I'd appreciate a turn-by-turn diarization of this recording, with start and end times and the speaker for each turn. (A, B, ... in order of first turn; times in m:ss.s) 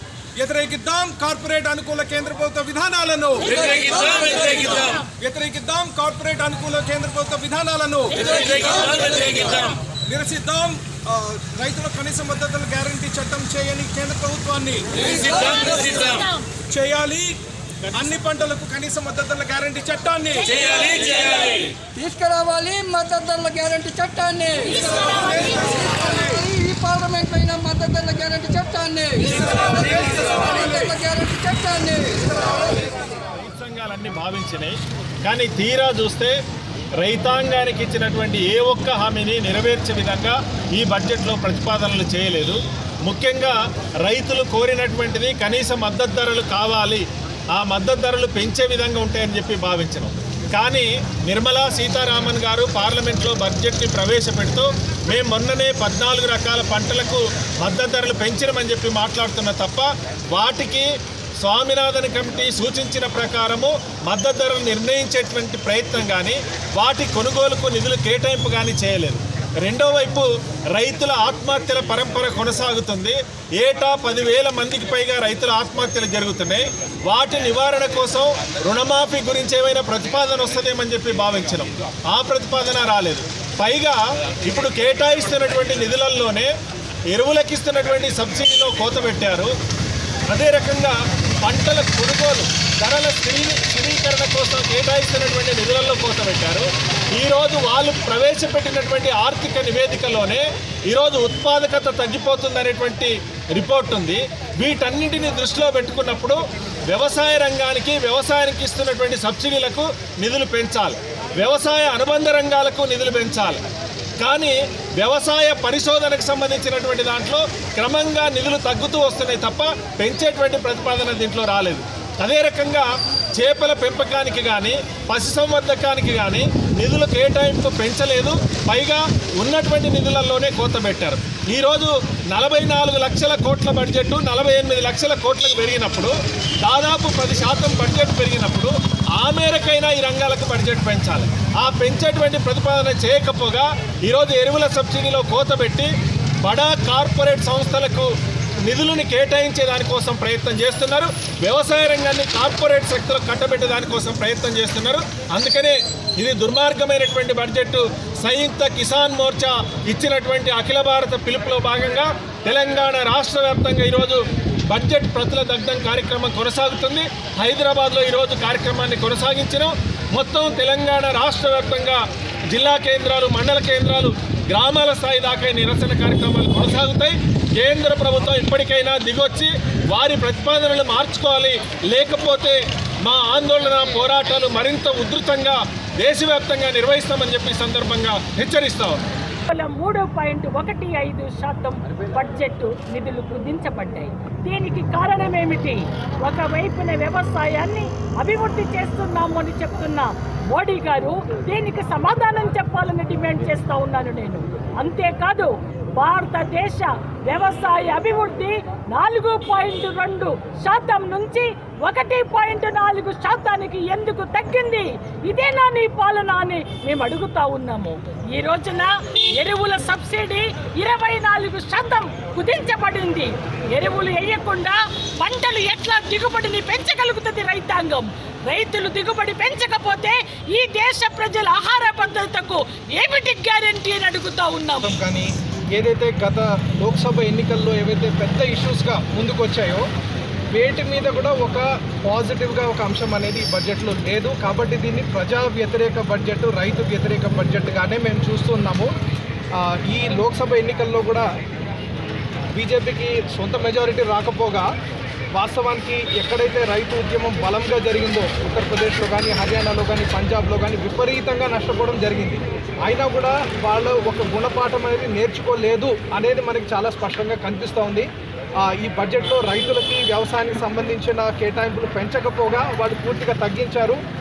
0:00.4-0:04.2 A
0:03.5-0:04.8 B
0:03.8-0:05.1 C
0:05.2-0:08.6 A
0:08.1-0:09.7 C
0:08.3-0:09.7 B
0:10.1-0:15.6 A
0:15.0-0:16.5 C
0:16.7-0:17.4 A
0:17.9-0:20.7 A
0:20.4-0:21.8 C
0:21.8-0:32.6 B
0:24.7-0:25.6 C
0:33.3-0:36.4 D
0:37.0-0:47.0 D
0:47.6-1:00.9 D
1:01.4-1:26.5 D
1:27.1-1:29.5 D
1:30.3-1:53.6 D
1:54.2-2:25.9 D
2:26.4-2:28.1 D
2:28.6-3:09.0 D
3:09.5-3:54.9 C
3:54.8-3:59.8 A
4:00.5-4:08.9 A
4:09.6-4:11.3 A
4:12.6-4:14.7 A
4:15.4-4:28.1 A
4:28.6-4:34.0 A